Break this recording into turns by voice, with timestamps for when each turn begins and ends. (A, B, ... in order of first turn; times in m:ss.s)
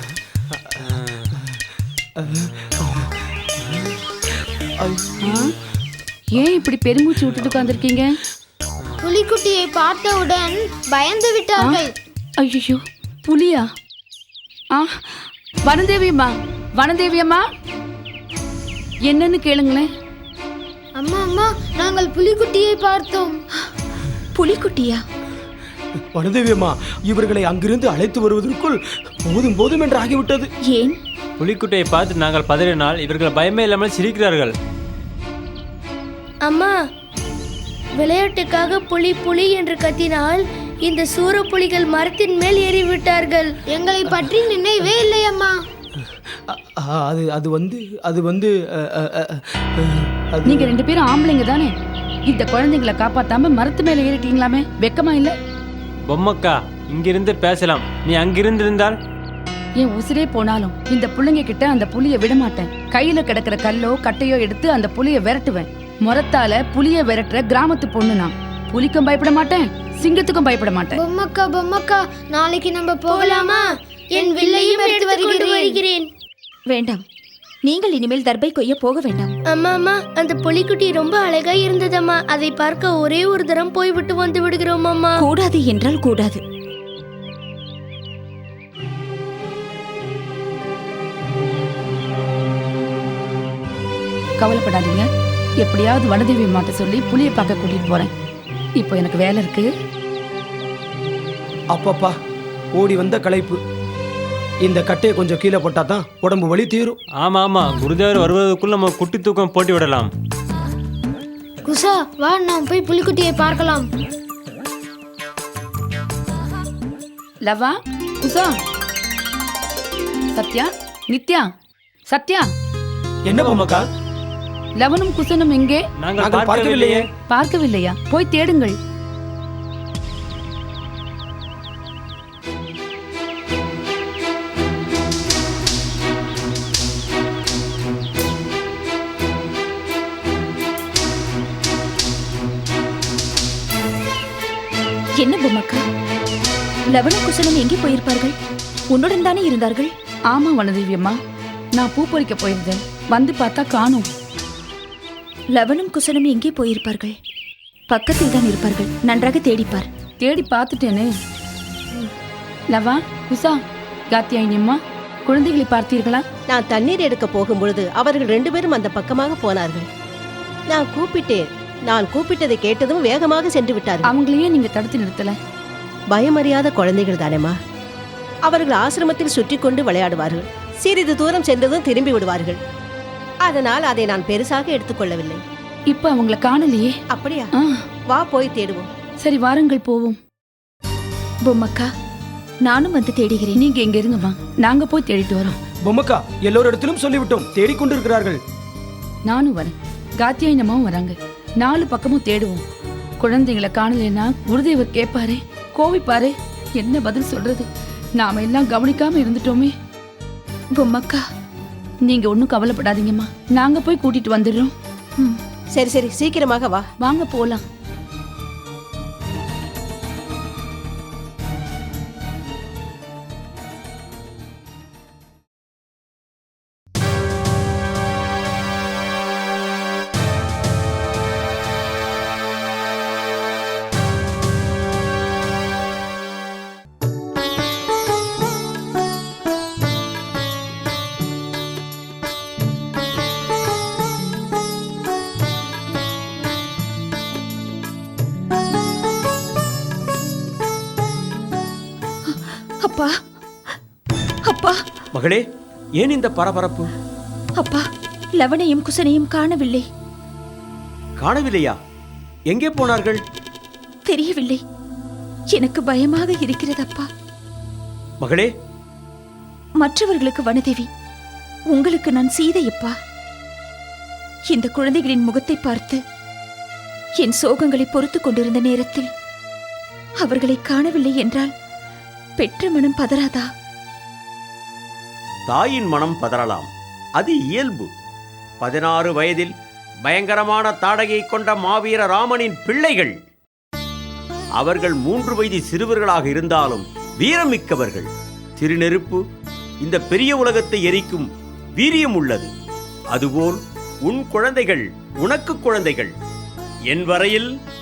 0:04.9-0:05.2 A
0:05.2-0:05.5 B
0:06.3-0:08.2 B
0:09.0-0:11.9 C
0:11.6-0:11.9 B
0:12.4-0:13.7 B
0:14.7-0:15.0 B
0:15.6-0:17.4 B
0:19.0-0:19.9 B
0:20.9-0:23.4 C
0:24.4-0:25.0 D
0:26.1-0:30.5 A
0:30.6-0:31.0 D
0:31.4-0:34.5 E
0:36.4-0:36.7 F
0:38.0-0:43.5 F
0:43.7-0:45.6 C
0:46.5-0:50.7 A
0:50.4-0:51.7 B
0:52.2-0:55.4 B
0:56.0-0:59.0 E
0:59.8-1:11.0 B
1:10.9-1:13.6 C
1:13.1-1:16.1 F
1:14.1-1:15.8 C
1:16.7-1:17.0 D
1:17.6-1:19.3 D
1:19.5-1:25.2 F
1:25.2-1:26.4 D
1:34.4-1:35.1 B
1:35.6-1:38.1 B
1:38.8-1:39.7 B
1:41.7-1:42.1 A
1:42.7-1:43.6 A
1:44.6-1:47.0 A
1:47.1-1:50.1 E
1:51.6-1:53.9 C
1:57.4-1:58.6 B
2:00.3-2:01.5 B
2:02.1-2:02.5 B
2:03.2-2:03.9 A
2:03.3-2:03.8 E
2:04.8-2:05.8 B
2:06.0-2:07.1 E
2:06.2-2:07.1 A
2:07.3-2:08.8 B
2:25.2-2:25.8 D
2:26.9-2:28.4 D
2:28.9-2:29.9 D
2:30.3-2:31.2 B
2:31.7-2:34.1 B
2:35.5-2:37.1 D
2:37.9-2:39.9 D
2:40.2-2:41.1 B
2:42.7-2:43.6 B
2:44.1-2:46.2 B
2:46.5-2:49.9 G
2:50.7-2:54.1 G
2:54.1-2:55.4 B
2:56.1-2:57.6 G
2:58.4-3:02.6 G
3:03.4-3:05.4 G
3:05.9-3:06.9 B
3:07.1-3:07.5 G
3:08.1-3:08.9 G
3:09.2-3:10.2 B
3:11.4-3:11.9 D
3:12.6-3:13.6 D
3:13.5-3:15.6 B
3:15.8-3:18.4 A
3:19.2-3:22.6 B
3:23.2-3:29.7 B
3:30.7-3:31.2 D
3:32.0-3:34.7 B
3:35.7-3:36.9 G
3:37.0-3:37.6 B
4:12.2-4:13.1 D
4:14.5-4:14.8 D
4:15.1-4:15.4 H
4:16.0-4:16.9 H
4:17.6-4:19.8 D
4:21.2-4:21.8 H
4:22.5-4:23.2 H
4:24.0-4:24.6 D
4:25.5-4:27.1 D
4:28.2-4:28.5 H
4:29.8-4:30.9 D
4:31.7-4:32.9 D
4:34.5-4:36.0 D
4:37.2-4:39.1 D
4:40.2-4:41.5 D
4:42.4-4:43.5 D
4:45.5-4:47.9 H
4:48.6-4:49.5 H
4:50.0-4:53.1 H
4:54.6-4:59.2 H
4:59.8-5:02.5 H
5:03.1-5:06.1 H
5:06.9-5:07.5 H